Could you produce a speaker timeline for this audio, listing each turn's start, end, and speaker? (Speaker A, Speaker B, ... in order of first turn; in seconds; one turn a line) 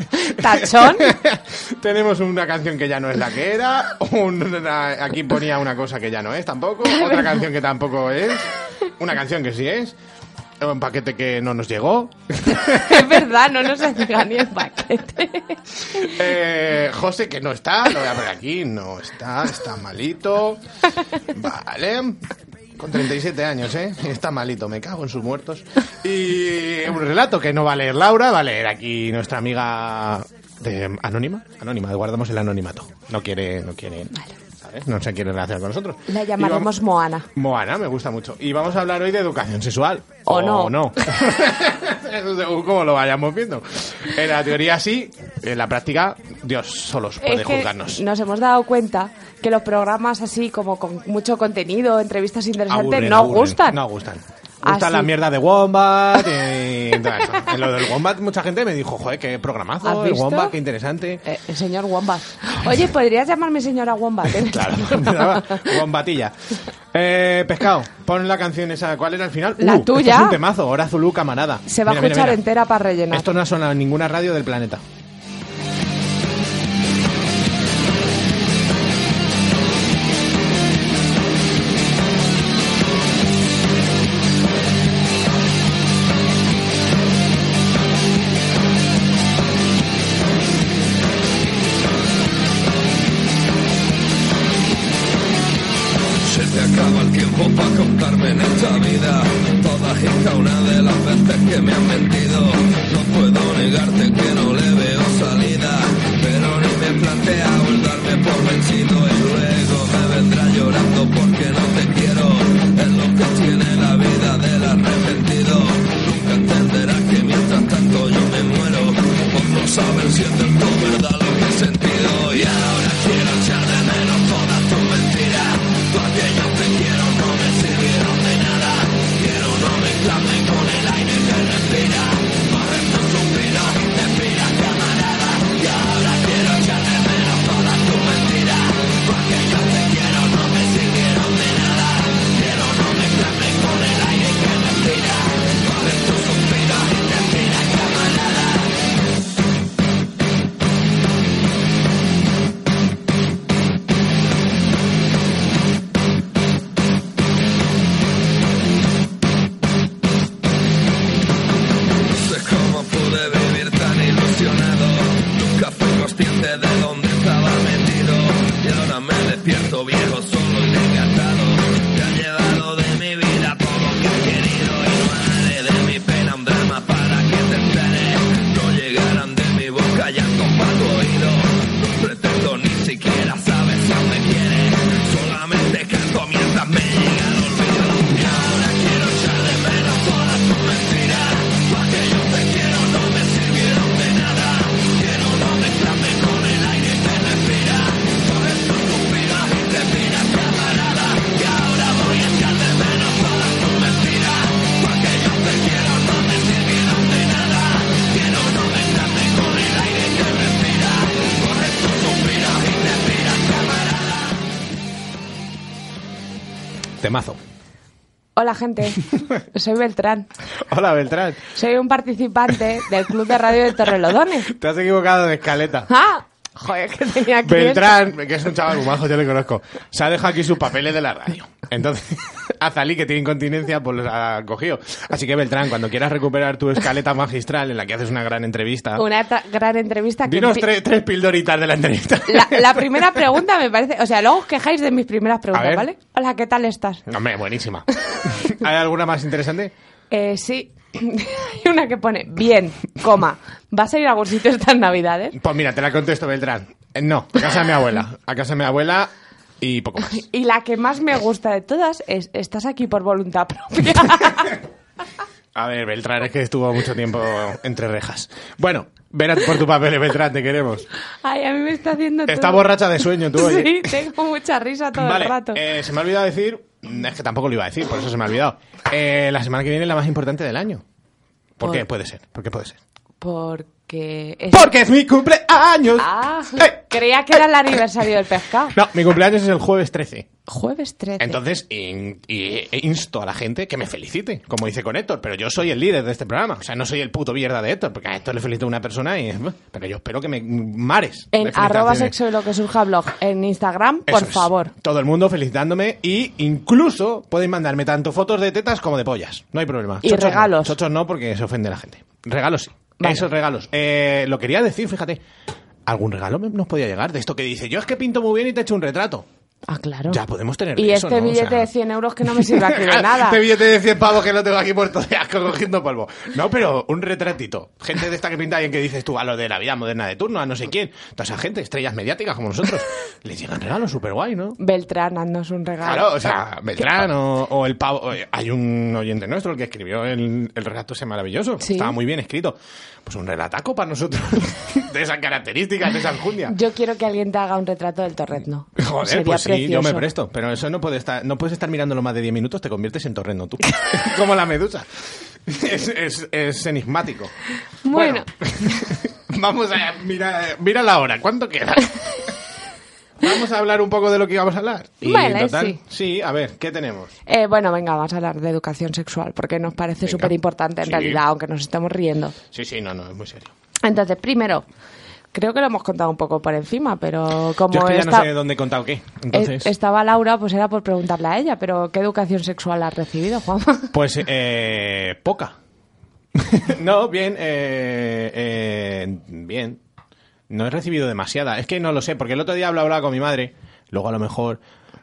Speaker A: 0.1-1.1
Speaker B: 0.4-9.9
Speaker A: 6.9-7.4
Speaker B: 10.6-13.2
Speaker A: 12.6-16.1
Speaker B: 15.9-20.6
Speaker B: 21.2-22.2
Speaker B: 22.8-36.7
Speaker A: 36.1-37.3
Speaker B: 37.3-48.0
Speaker A: 40.3-40.8
Speaker A: 47.2-53.8
Speaker B: 52.7-61.2
Speaker A: 54.6-55.1
Speaker A: 57.0-57.5
Speaker A: 59.8-60.5
Speaker A: 61.2-65.7
Speaker B: 64.3-66.3
Speaker B: 66.9-72.4
Speaker A: 69.6-70.4
Speaker A: 71.7-73.3
Speaker B: 73.1-74.8
Speaker C: 96.2-148.7
Speaker C: 162.1-214.3
Speaker B: 217.0-217.4
Speaker A: 218.3-220.3
Speaker B: 220.6-221.4
Speaker A: 221.5-224.5
Speaker B: 224.5-225.9
Speaker A: 225.9-228.0
Speaker B: 227.4-239.0
Speaker A: 238.9-240.7
Speaker B: 240.3-243.2
Speaker A: 242.3-247.0
Speaker B: 245.5-245.9
Speaker B: 247.1-249.7
Speaker A: 250.1-255.3
Speaker B: 255.3-260.2
Speaker A: 260.1-264.6
Speaker B: 265.5-270.9
Speaker A: 271.2-275.6
Speaker B: 272.3-273.9
Speaker B: 274.9-280.8
Speaker B: 281.6-282.8
Speaker A: 283.2-284.7
Speaker B: 284.5-286.8
Speaker A: 286.0-288.8
Speaker B: 288.7-290.3
Speaker A: 290.5-291.4
Speaker B: 291.2-302.1
Speaker A: 301.3-304.7
Speaker B: 304.1-315.2
Speaker A: 310.0-310.8
Speaker A: 313.0-313.3
Speaker B: 315.9-319.2
Speaker A: 319.7-320.2
Speaker B: 320.1-321.7
Speaker A: 320.8-323.4
Speaker B: 322.2-334.6
Speaker A: 334.6-336.9
Speaker B: 335.8-346.5
Speaker A: 341.6-341.9
Speaker A: 346.5-350.1
Speaker B: 348.8-357.3
Speaker A: 357.8-358.9
Speaker B: 357.9-362.3
Speaker B: 363.2-367.1
Speaker A: 365.0-365.8
Speaker A: 367.2-372.3
Speaker B: 370.0-370.3
Speaker B: 370.8-371.2
Speaker B: 372.5-373.5
Speaker A: 373.8-374.6
Speaker A: 375.3-378.3
Speaker B: 377.7-379.7
Speaker A: 379.3-383.9
Speaker B: 383.9-385.6
Speaker B: 386.3-389.8
Speaker B: 390.5-394.6